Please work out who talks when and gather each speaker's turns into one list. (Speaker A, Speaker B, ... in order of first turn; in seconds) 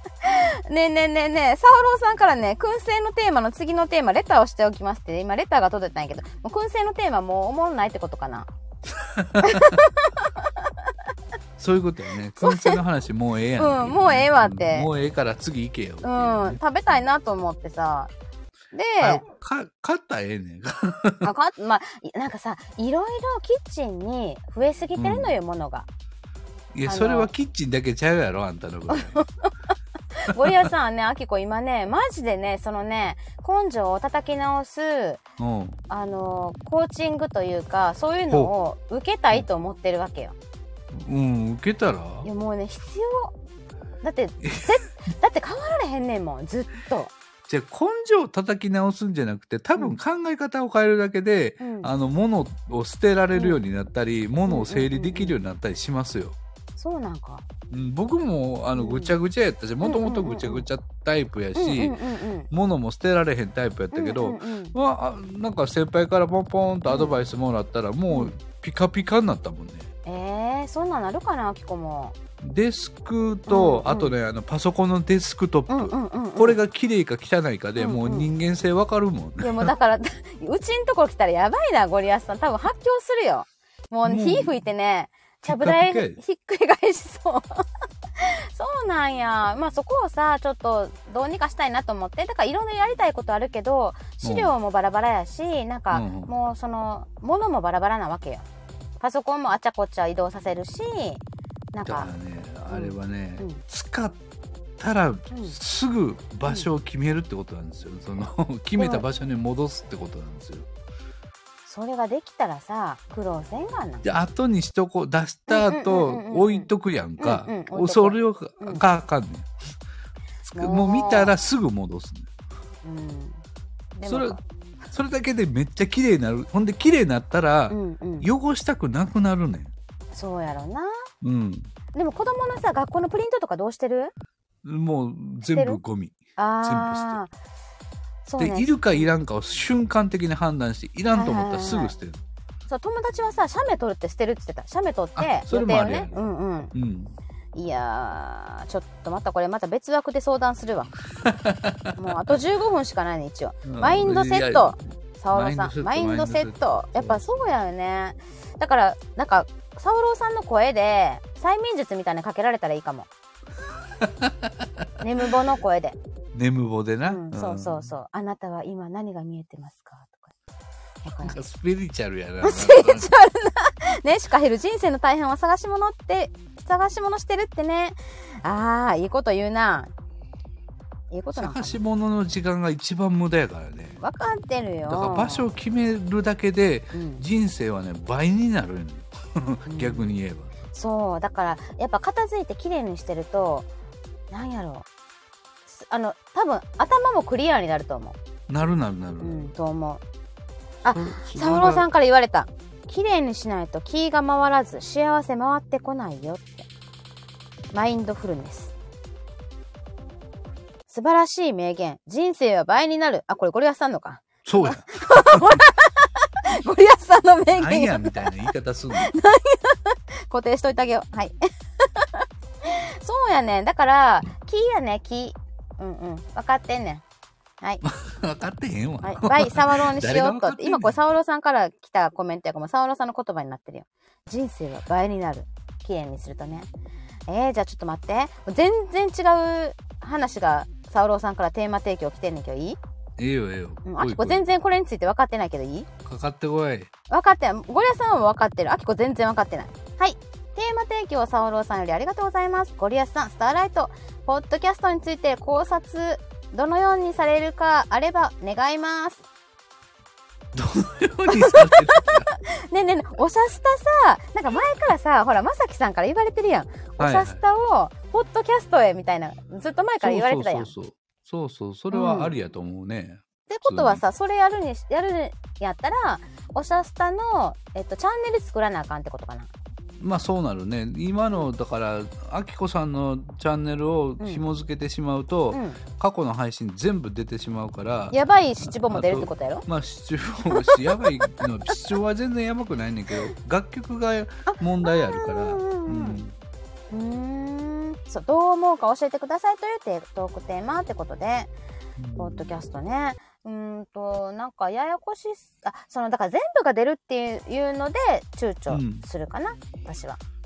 Speaker A: 0.2-8.5, 9.4-10.7, 12.4-12.8, 13.6-14.9, 16.0-18.1, 18.7-19.2, 21.2-25.9, 26.9-27.3, 28.9-29.5, 30.1-35.2, 35.9-40.3, 42.2-43.3, 44.0-47.1, 51.6-51.9, 53.3-53.6, 54.5-55.4, 56.8-57.4, 58.7-59.1, 59.8-60.6, 61.5-62.5, 63.9-64.7, 66.9-67.2, 68.1-68.4, 70.0-72.1, 73.5-74.1, 75.7-76.6, 77.8-78.3, 79.4-87.6, 88.2-98.5, 99.0-101.2, 101.7-102.1, 102.7-103.6, 105.3-105.6, 108.8-109.0, 111.7-114.1, 115.5-118.8, 120.5-121.3, 122.8-123.4, 123.9-124.4, 127.7-128.3, 130.1-130.9, 131.9-134.1, 135.4-135.8, 136.4-137.3, 138.2-139.1, 141.1-141.9, 142.7-146.7, 147.5-150.9, 152.0-163.1, 165.0-166.0, 167.0-170.3, 171.0-171.4, 172.4-179.9, 181.1-181.8, 184.0-185.5, 186.9-187.2, 189.7-190.1, 190.7-193.7, 194.3-194.8, 195.7-198.2, 199.2-200.0, 200.8-206.7, 207.7-208.7, 210.9-227.0, 229.0-236.7, 237.3-242.8, 243.8-245.9, 247.1-259.2, 261.3-270.7, 271.9-272.3, 273.5-279.5, 285.5-285.8, 288.1-289.6, 290.5-291.0, 294.5-296.2, 296.9-301.5, 302.1-310.2
Speaker B: 8.9-9.8, 11.6-16.6, 19.0-21.3, 25.0-25.4, 26.7-29.2, 30.3-30.7, 35.4-35.8, 40.9-42.3, 44.4-44.7, 47.5-56.3, 57.7-62.0, 62.5-69.9, 72.4-79.7, 84.0-84.5, 85.4-86.2, 94.2-94.5, 95.9-96.3, 101.8-104.2, 104.8-110.7, 114.0-119.5, 120.5-122.3, 124.0-124.4, 124.9-129.7, 131.2-131.7, 134.6-137.2, 138.4-142.2, 145.2-146.2, 146.7-147.1, 151.2-152.3, 153.7-154.8, 155.3-157.5, 164.0-164.9, 166.3-167.9, 171.2-173.1, 181.3-184.0, 184.9-190.5, 198.5-199.5, 200.9-201.8, 214.4-215.6, 217.5-219.1, 227.8-231.0, 243.2-244.5, 246.0-246.9, 260.5-262.3, 267.0-267.4, 270.0-274.0, 280.0-296.3, 302.0-302.6, 308.7-309.0